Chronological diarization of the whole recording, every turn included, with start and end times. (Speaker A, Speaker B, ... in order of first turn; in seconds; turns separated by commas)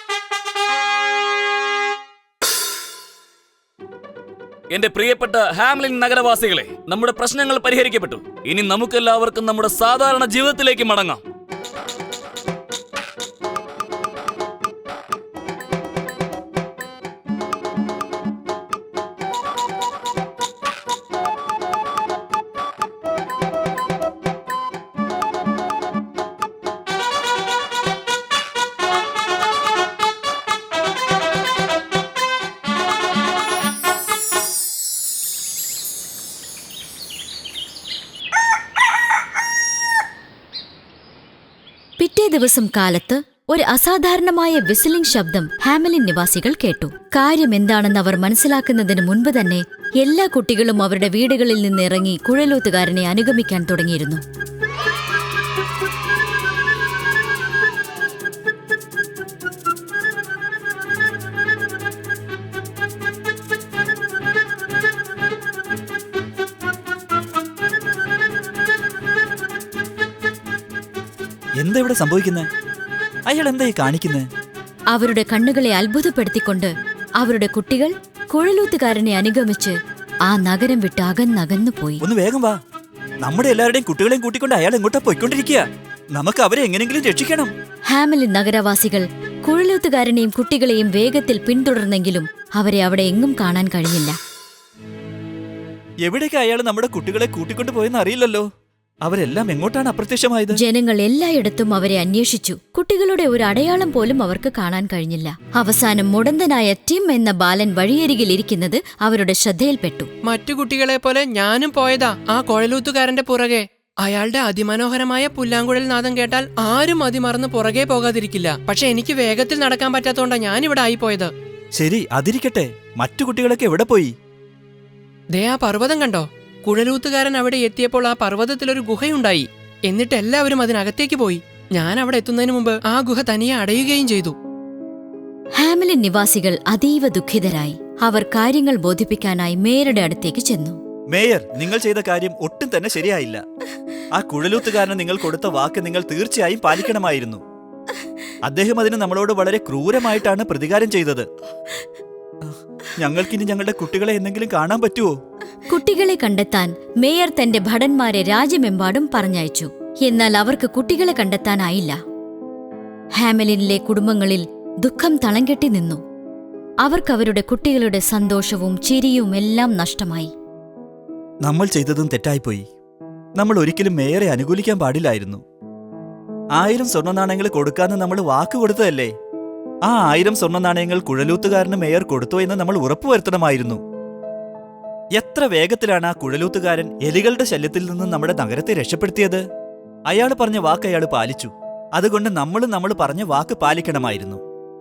Speaker A: 4.7-11.2, Speaker B: 42.0-54.2, Speaker C: 71.6-72.5, Speaker C: 73.3-74.3, Speaker B: 74.9-82.0, Speaker C: 82.0-82.6, Speaker C: 83.2-87.5, Speaker B: 87.9-94.2, Speaker C: 96.0-98.5, Speaker C: 99.0-100.6, Speaker B: 100.5-110.1, Speaker D: 110.3-121.3, Speaker C: 121.8-124.1, Speaker D: 125.3-134.3, Speaker B: 135.6-140.8, Speaker C: 141.1-143.4, Speaker C: 144.2-147.4, Speaker C: 148.5-151.3, Speaker C: 152.4-155.2, Speaker B: 155.7-162.0, Speaker B: 163.2-166.0, Speaker B: 166.8-170.3, Speaker C: 171.4-172.7, Speaker C: 173.4-175.4, Speaker C: 176.6-179.1, Speaker C: 179.8-183.8, Speaker C: 185.2-189.4, Speaker C: 190.1-194.4